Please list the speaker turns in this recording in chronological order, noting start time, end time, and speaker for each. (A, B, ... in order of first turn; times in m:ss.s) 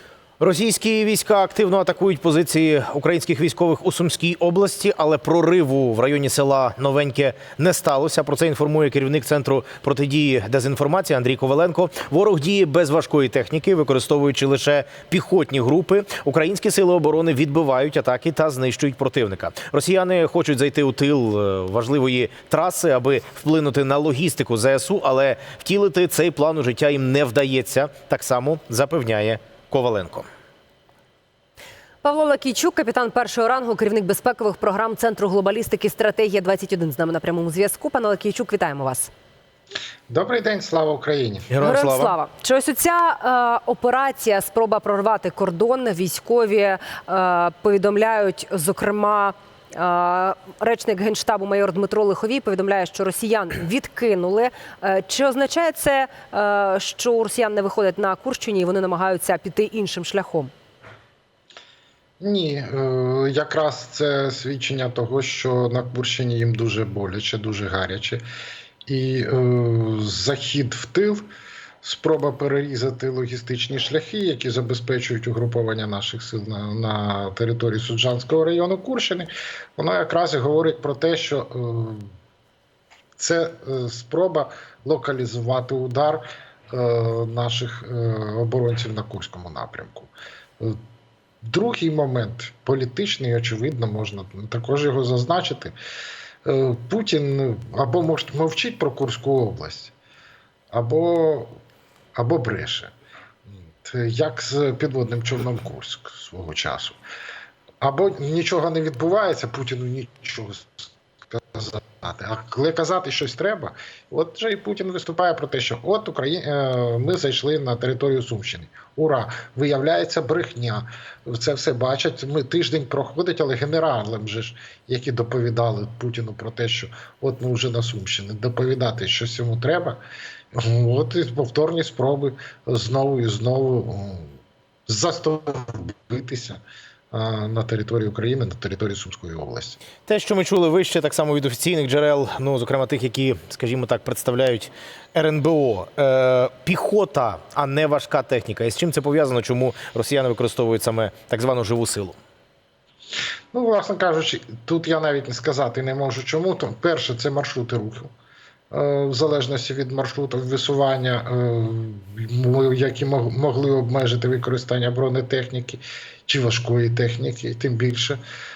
0:00.4-0:30.3 A
0:32.0-0:39.1 B
0:40.1-0:41.5 C
0:41.5-0:42.2 A
0:41.6-1:00.5 B
1:02.2-1:08.2 C
1:08.9-1:11.3 C
1:11.8-1:22.1 C
1:23.2-1:30.8 C
1:31.4-1:35.7 C
1:36.4-1:39.9 C
1:40.7-1:41.6 C
1:42.2-1:42.9 C
1:43.5-1:47.0 C
1:47.8-2:10.0 C
2:10.5-2:14.3 C
2:14.9-2:16.6 C
2:17.1-2:19.8 C
2:20.1-2:32.2 A
2:33.5-2:38.1 C
2:38.7-2:48.2 C